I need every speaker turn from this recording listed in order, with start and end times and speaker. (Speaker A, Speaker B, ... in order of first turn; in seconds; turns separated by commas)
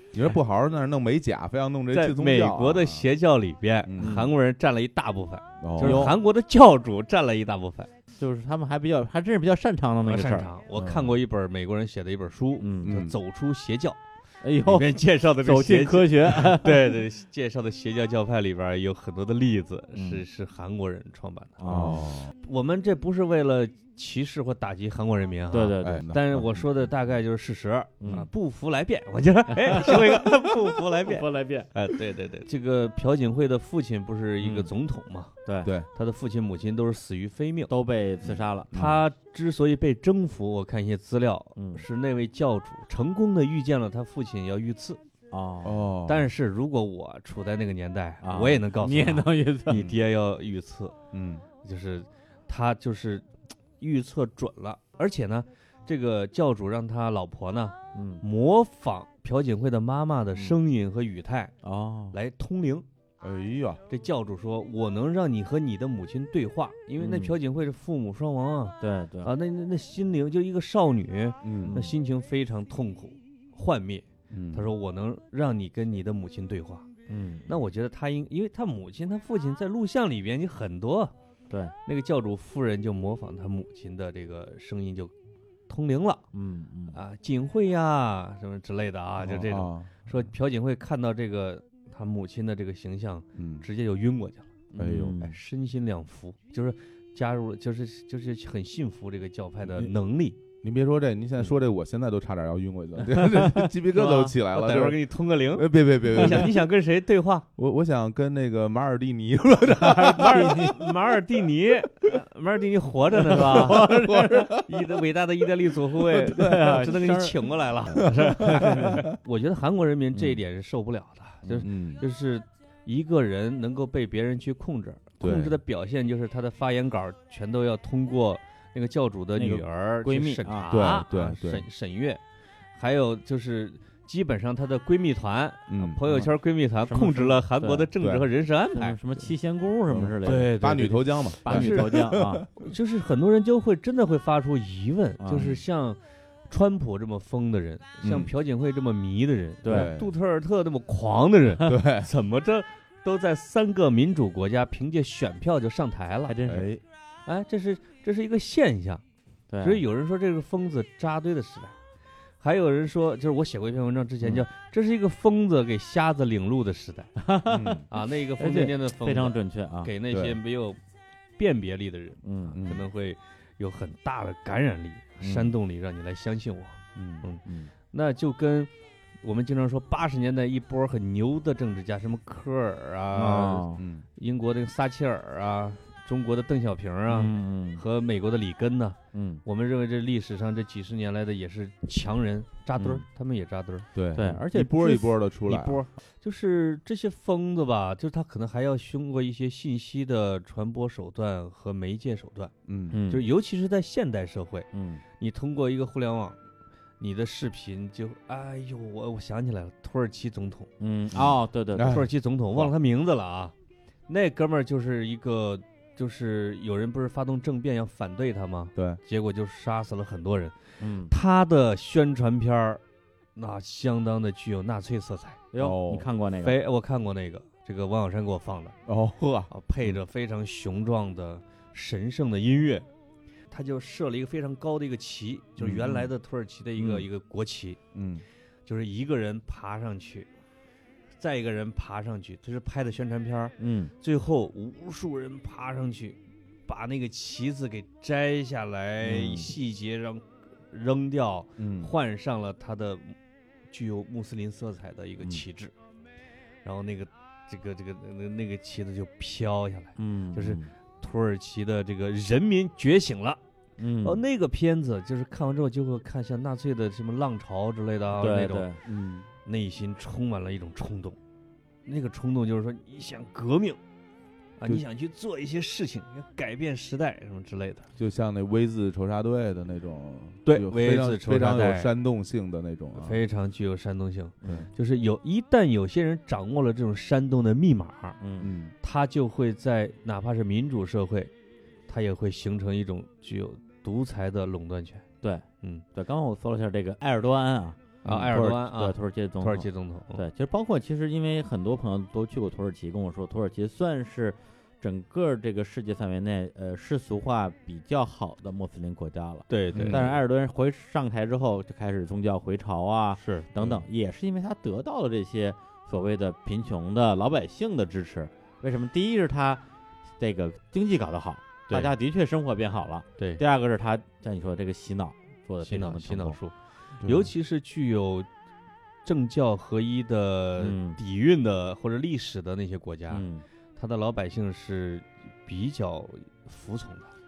Speaker A: 0.1-3.0, Speaker B: 1.9-7.9, Speaker A: 3.8-4.3, Speaker C: 4.0-4.3, Speaker A: 5.6-6.1, Speaker C: 5.8-6.1, Speaker C: 8.2-10.5, Speaker B: 10.0-14.0, Speaker A: 10.8-11.2, Speaker C: 12.6-12.9, Speaker A: 12.8-13.2, Speaker C: 14.4-16.8, Speaker B: 14.6-35.3, Speaker C: 19.9-20.2, Speaker C: 21.6-22.1, Speaker A: 21.7-22.3, Speaker C: 25.5-26.1, Speaker A: 25.8-26.7, Speaker C: 28.0-28.3, Speaker C: 29.6-31.7, Speaker C: 34.4-34.7, Speaker C: 35.5-35.7, Speaker B: 35.9-37.7, Speaker C: 37.7-38.9, Speaker A: 38.2-38.9, Speaker B: 38.7-45.0, Speaker C: 41.5-41.8, Speaker C: 45.3-45.8, Speaker A: 45.6-46.3, Speaker B: 46.0-51.0, Speaker C: 48.2-49.9, Speaker A: 51.1-51.4, Speaker B: 51.6-53.3, Speaker B: 53.8-61.5, Speaker C: 57.9-58.2, Speaker C: 61.6-62.1, Speaker B: 62.1-62.8, Speaker A: 63.2-63.8, Speaker B: 63.9-76.9, Speaker C: 67.0-67.3, Speaker C: 68.8-69.3, Speaker A: 71.4-71.8, Speaker C: 71.6-71.9, Speaker A: 74.3-74.7, Speaker C: 77.1-77.5, Speaker B: 77.5-81.1, Speaker B: 81.8-85.1, Speaker B: 85.7-86.2, Speaker C: 86.3-87.0, Speaker B: 86.9-94.6, Speaker A: 89.2-90.0, Speaker A: 93.3-93.7, Speaker C: 94.7-95.3, Speaker A: 94.8-95.2, Speaker B: 95.2-100.4, Speaker A: 99.7-99.9, Speaker A: 100.6-106.5, Speaker C: 103.3-103.7, Speaker B: 103.9-107.5, Speaker C: 106.2-106.4, Speaker A: 107.6-110.7, Speaker B: 109.9-132.2, Speaker C: 110.1-110.7, Speaker A: 113.2-114.8, Speaker C: 113.3-114.5, Speaker A: 115.7-116.8, Speaker C: 116.3-119.0, Speaker A: 118.0-119.1, Speaker A: 121.5-122.0, Speaker A: 125.2-125.6, Speaker C: 129.3-130.7, Speaker A: 130.7-131.7, Speaker B: 132.8-139.0, Speaker A: 135.7-136.2, Speaker C: 136.9-137.9, Speaker A: 138.0-138.3, Speaker C: 138.7-140.5, Speaker A: 139.9-142.6, Speaker B: 140.2-142.0, Speaker C: 141.4-142.4, Speaker B: 142.6-146.0, Speaker C: 145.2-145.6, Speaker B: 146.5-156.3, Speaker A: 148.0-148.3, Speaker C: 149.6-149.9, Speaker A: 149.7-150.1, Speaker A: 151.6-152.1, Speaker C: 156.3-156.7, Speaker A: 156.4-156.8, Speaker B: 157.2-159.0, Speaker C: 159.5-159.8, Speaker B: 159.6-161.7, Speaker B: 162.4-167.1, Speaker C: 167.2-169.9, Speaker A: 167.5-167.8, Speaker B: 167.9-170.8, Speaker A: 170.1-170.4, Speaker B: 171.4-178.7, Speaker C: 172.2-172.6, Speaker A: 172.5-172.8, Speaker C: 175.2-175.5, Speaker A: 176.9-177.3, Speaker C: 177.4-177.7, Speaker B: 179.2-193.9, Speaker C: 183.1-183.8, Speaker A: 183.8-184.0, Speaker C: 187.1-187.8, Speaker C: 189.1-189.4, Speaker C: 192.8-193.0, Speaker A: 193.9-195.8, Speaker C: 194.1-195.0, Speaker B: 195.4-202.5, Speaker A: 202.7-203.0, Speaker C: 202.9-203.2, Speaker B: 203.1-206.4, Speaker C: 204.7-205.0, Speaker B: 207.0-210.7, Speaker C: 210.8-212.0, Speaker A: 211.1-212.7, Speaker B: 211.8-213.5, Speaker B: 214.1-220.5, Speaker C: 220.8-221.1, Speaker B: 221.1-222.8, Speaker B: 223.3-225.4, Speaker C: 225.5-226.6, Speaker A: 225.6-226.1, Speaker B: 226.4-228.7, Speaker A: 228.9-230.0, Speaker B: 229.5-232.8, Speaker B: 233.5-237.8, Speaker A: 235.6-236.1, Speaker C: 236.8-237.0, Speaker A: 237.9-238.2, Speaker B: 238.7-240.3, Speaker B: 241.2-253.2, Speaker C: 243.6-243.9, Speaker C: 249.0-249.5, Speaker A: 251.6-251.9, Speaker B: 253.7-255.7, Speaker B: 256.6-263.4, Speaker C: 260.0-260.7, Speaker C: 263.8-264.2, Speaker B: 264.0-268.7, Speaker C: 268.2-268.8, Speaker A: 268.9-269.3, Speaker B: 269.4-271.2, Speaker B: 271.9-273.8, Speaker B: 274.6-277.9, Speaker A: 278.0-283.2, Speaker B: 280.4-281.9, Speaker B: 283.0-288.2, Speaker C: 284.4-284.7, Speaker C: 288.2-288.5, Speaker A: 288.4-288.7, Speaker B: 288.8-291.3, Speaker B: 291.9-295.0, Speaker C: 295.2-319.6, Speaker B: 298.0-300.2, Speaker A: 298.0-298.3, Speaker B: 309.5-310.2, Speaker A: 309.7-310.1, Speaker B: 313.2-313.7, Speaker C: 320.2-326.4, Speaker B: 325.6-328.3, Speaker A: 327.0-327.3, Speaker B: 329.0-333.2, Speaker C: 330.6-331.0, Speaker C: 333.1-333.4, Speaker B: 333.8-337.1